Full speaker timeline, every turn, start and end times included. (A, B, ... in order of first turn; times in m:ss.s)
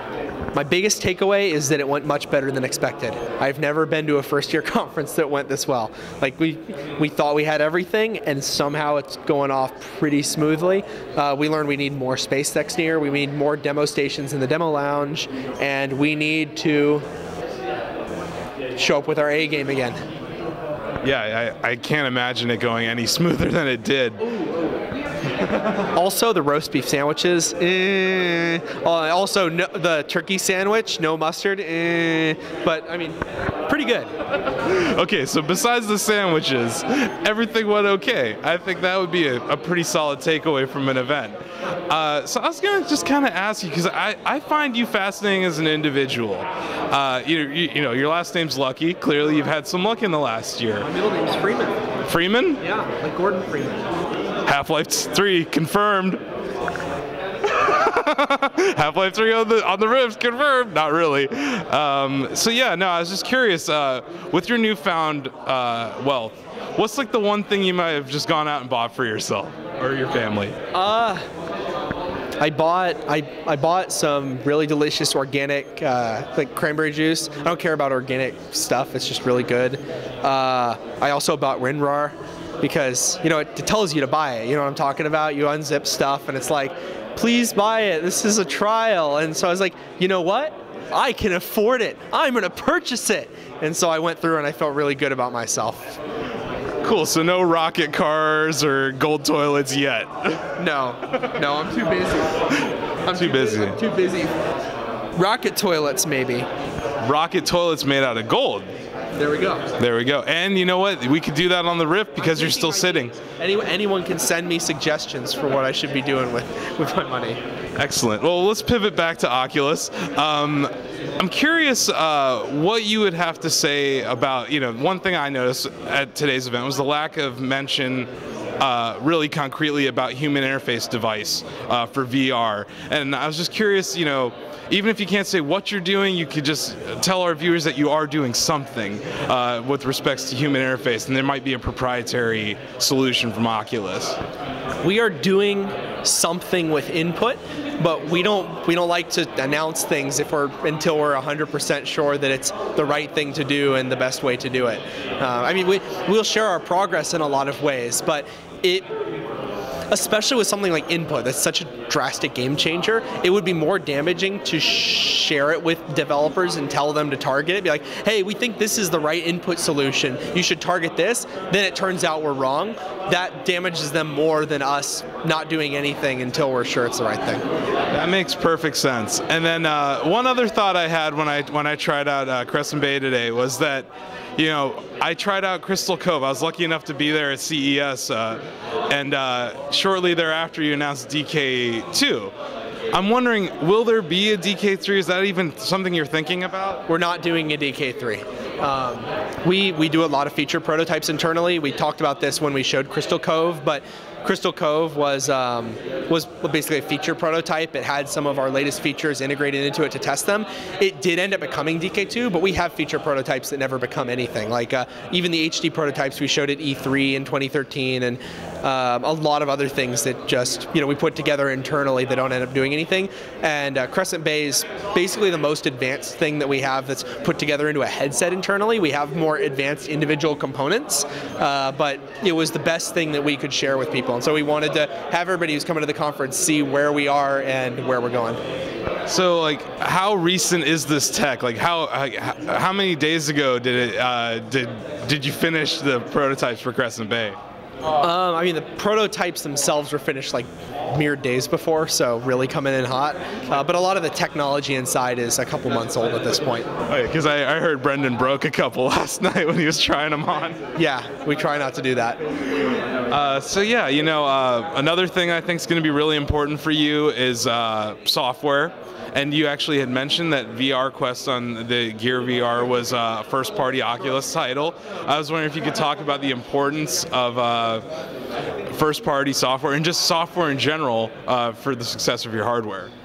0:00.5-0:17.1 A
0:18.8-0:20.0 A
0:21.0-0:24.3 B
0:25.8-0:34.1 A
0:34.5-0:50.9 B
0:50.8-0:51.9 A
0:52.1-0:52.6 B
0:52.6-0:53.9 A
0:54.5-0:56.2 B
0:57.4-1:10.6 B
1:10.7-1:11.3 A
1:12.4-1:36.0 A
1:36.8-1:40.5 B
1:40.6-1:44.4 A
1:43.1-1:43.8 B
1:45.2-1:46.5 A
1:47.0-1:48.7 B
1:49.2-1:49.7 A
1:49.8-1:53.1 B
1:52.2-1:57.4 A
1:57.8-2:24.2 B
2:24.8-2:38.9 A
2:39.9-2:57.4 A
2:57.9-3:12.3 B
3:12.9-3:16.8 B
3:16.9-3:58.4 A
3:59.1-4:07.4 B
4:08.0-4:16.7 A
4:16.9-4:20.6 B
4:20.8-4:22.2 A
4:23.1-4:37.8 B
4:38.7-4:42.9 B